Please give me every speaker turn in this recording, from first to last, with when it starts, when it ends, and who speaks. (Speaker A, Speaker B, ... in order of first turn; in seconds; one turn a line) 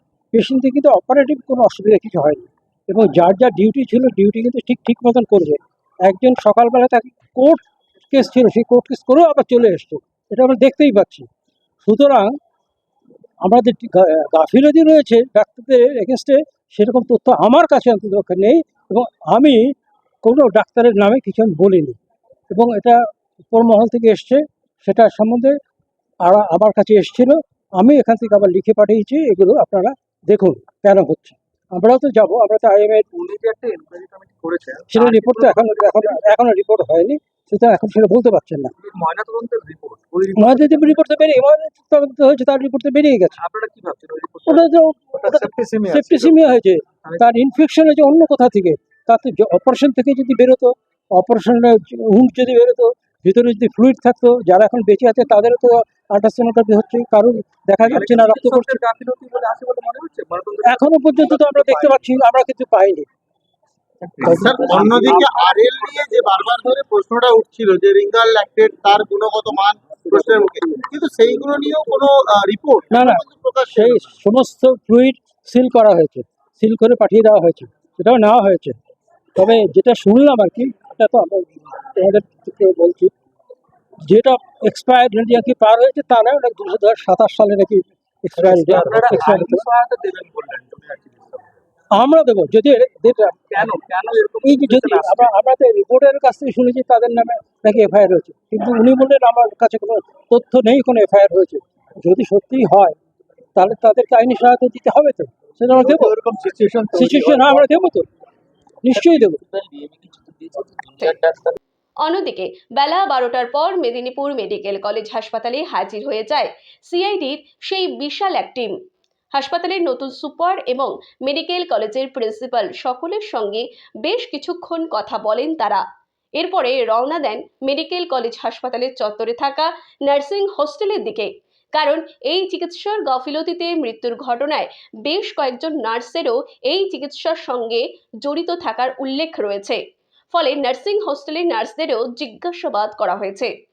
Speaker A: 0.3-11.3
Speaker A: 11.8-12.3
Speaker A: 13.4-19.7
Speaker A: 20.2-22.0
Speaker A: 22.5-25.6
Speaker A: 26.2-33.1
Speaker B: 33.1-36.3
Speaker A: 34.9-38.7
Speaker B: 38.8-41.2
Speaker A: 40.4-43.4
Speaker B: 43.4-46.4
Speaker A: 44.5-58.8
Speaker B: 57.9-62.0
Speaker A: 60.6-63.0
Speaker B: 64.0-65.9
Speaker A: 64.2-65.1
Speaker C: 64.2-74.1
Speaker A: 72.9-78.8
Speaker A: 79.3-83.1
Speaker A: 84.1-89.7
Speaker B: 88.4-91.4
Speaker A: 91.9-93.6
Speaker B: 93.5-95.3
Speaker A: 94.4-103.0
Speaker A: 103.5-106.2
Speaker B: 105.8-107.7
Speaker A: 106.9-108.1
Speaker A: 108.8-109.4
Speaker B: 109.0-111.6
Speaker D: 112.0-118.8
Speaker D: 119.3-125.8
Speaker D: 126.4-139.8
Speaker D: 140.3-143.5